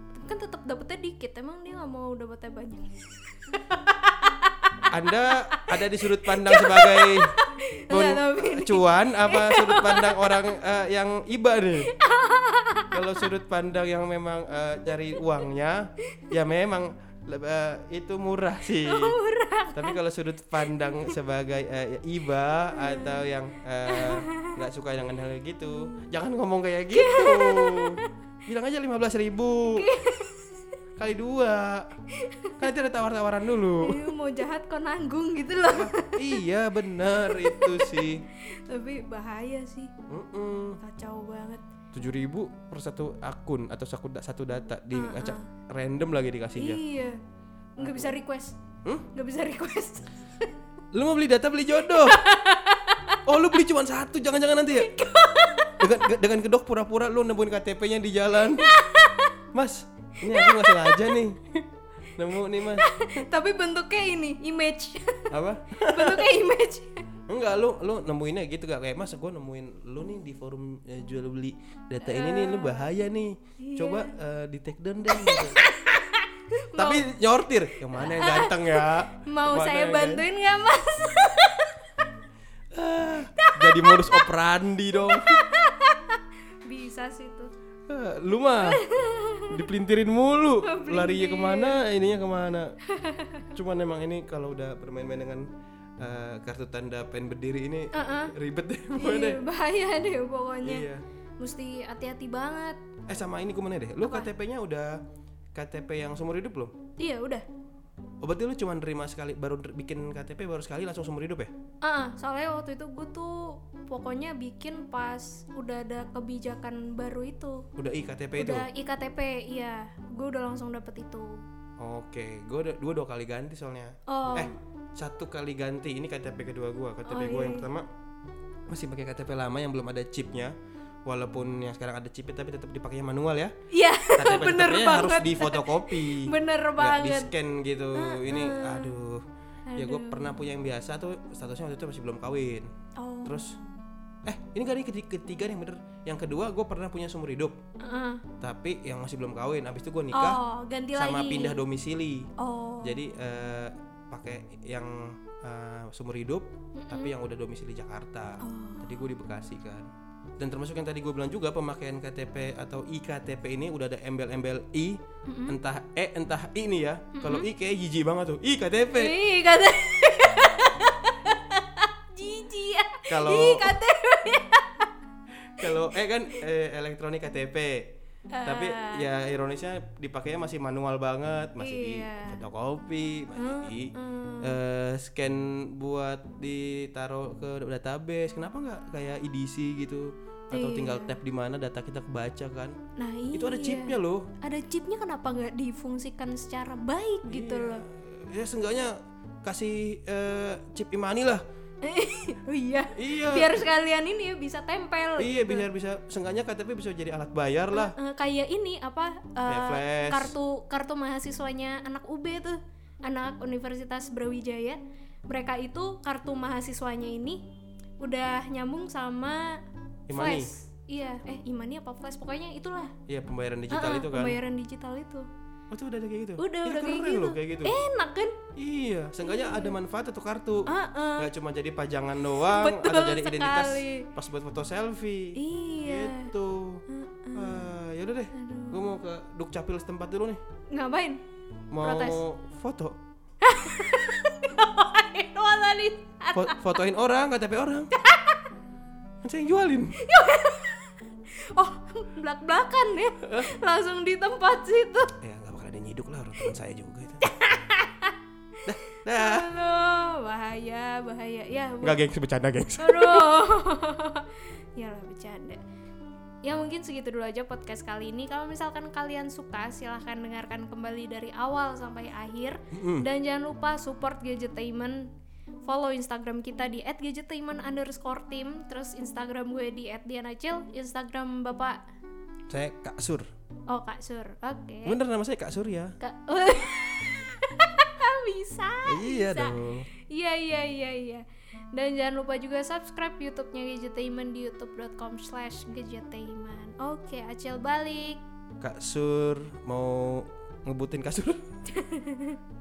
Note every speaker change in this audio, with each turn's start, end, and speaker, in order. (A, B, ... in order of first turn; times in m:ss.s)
0:00.1-0:10.5 A
0:04.9-0:07.3 B
0:07.9-0:11.9 B
0:11.8-0:13.3 A
0:12.9-0:19.2 B
0:18.8-0:20.0 A
0:19.7-0:29.8 B
0:20.6-0:21.2 A
0:22.8-0:23.2 A
0:23.9-0:24.6 A
0:25.7-0:26.0 A
0:26.9-0:28.1 A
0:29.7-0:30.8 A
0:31.0-0:31.9 B
0:32.1-0:32.6 A
0:32.6-0:34.0 B
0:33.8-0:36.4 A
0:35.7-0:38.2 B
0:37.0-0:39.9 A
0:40.1-0:40.8 B
0:40.8-0:41.6 A
0:41.9-0:46.8 B
0:44.9-0:45.5 A
0:46.6-0:47.2 A
0:47.8-0:48.6 A
0:47.8-0:48.2 B
0:49.1-0:50.5 A
0:50.9-0:52.2 B
0:51.9-0:53.6 A
0:53.2-0:55.0 B
0:54.7-0:56.1 A
0:55.8-0:58.8 B
0:58.5-0:59.4 A
0:59.5-1:03.2 B
1:00.2-1:01.2 A
1:02.6-1:07.0 A
1:05.3-1:06.3 B
1:07.3-1:15.6 B
1:12.0-1:12.9 A
1:13.6-1:14.2 A
1:15.1-1:17.0 A
1:16.8-1:20.2 B
1:17.9-1:22.1 A
1:22.7-1:25.4 B
1:23.4-1:24.3 A
1:25.1-1:27.5 A
1:27.9-1:28.8 B
1:28.6-1:29.6 A
1:29.5-1:32.7 B
1:30.6-1:31.8 A
1:32.9-1:33.5 A
1:33.5-1:35.5 B
1:36.0-1:39.4 B
1:37.9-1:38.3 A
1:38.9-1:40.9 A
1:40.6-1:41.0 B
1:41.4-1:42.8 A
1:43.1-1:44.9 B
1:44.0-1:44.3 A
1:45.5-1:46.7 B
1:47.0-1:47.4 A
1:48.2-1:51.5 B
1:51.8-1:57.7 A
1:57.8-1:58.7 B
1:58.4-2:01.4 A
2:01.8-2:07.8 B
2:04.1-2:04.5 A
2:07.0-2:07.7 A
2:08.7-2:10.5 B
2:11.0-2:13.5 B
2:13.7-2:17.3 A
2:14.2-2:19.2 B
2:18.0-2:18.9 A
2:19.7-2:20.4 A
2:19.8-2:22.7 B
2:23.0-2:23.8 A
2:23.2-2:23.6 B
2:24.2-2:27.6 B
2:27.8-2:28.2 A
2:28.4-2:30.4 B
2:30.1-2:31.6 A
2:30.9-2:32.3 B
2:32.4-2:33.0 A
2:32.8-2:39.9 B
2:36.7-2:37.1 A
2:38.4-2:39.0 A
2:40.4-2:49.2 B
2:45.2-2:45.6 A
2:47.2-2:47.5 A
2:48.9-2:54.9 A
2:53.1-2:53.8 B
2:55.6-2:57.9 B
2:58.3-2:59.1 A
2:58.4-3:12.8 B
3:01.6-3:02.4 A
3:03.4-3:04.6 A
3:10.5-3:11.2 A
3:13.0-3:17.8 A
3:13.3-3:14.3 B
3:17.3-3:21.4 B
3:21.8-3:25.6 A
3:22.9-3:23.7 B
3:25.2-3:28.0 B
3:27.7-3:37.5 A
3:29.4-3:30.3 B
3:38.0-3:42.9 A
3:40.1-3:40.5 B
3:43.1-3:44.4 B
3:43.7-3:45.3 A
3:45.7-3:47.8 B
3:46.4-3:48.4 A
3:48.6-3:56.8 B
3:49.2-3:49.8 A
3:50.6-3:51.3 A
3:52.4-3:54.1 A
3:55.3-3:56.3 A
3:56.9-3:57.6 A
3:57.3-4:00.4 B
3:58.3-3:59.0 A
4:00.7-4:01.2 A
4:01.7-4:03.0 B
4:01.8-4:02.2 A
4:03.4-4:06.8 A
4:06.3-4:08.0 B
4:08.0-4:08.5 A
4:09.2-4:10.0 B
4:10.0-4:15.1 A
4:15.2-4:17.3 B
4:17.2-4:18.2 A
4:18.6-4:19.5 B
4:18.9-4:22.0 A
4:21.8-4:23.3 B
4:22.8-4:25.6 A
4:26.4-4:35.1 A
4:32.7-4:33.1 B
4:35.6-4:41.8 A
4:42.5-4:43.3 B
4:43.7-4:45.0 A
4:44.8-4:46.0 B
4:46.0-4:58.2 A
4:48.8-4:49.8 B
4:58.6-5:01.4 B
5:01.6-5:02.4 A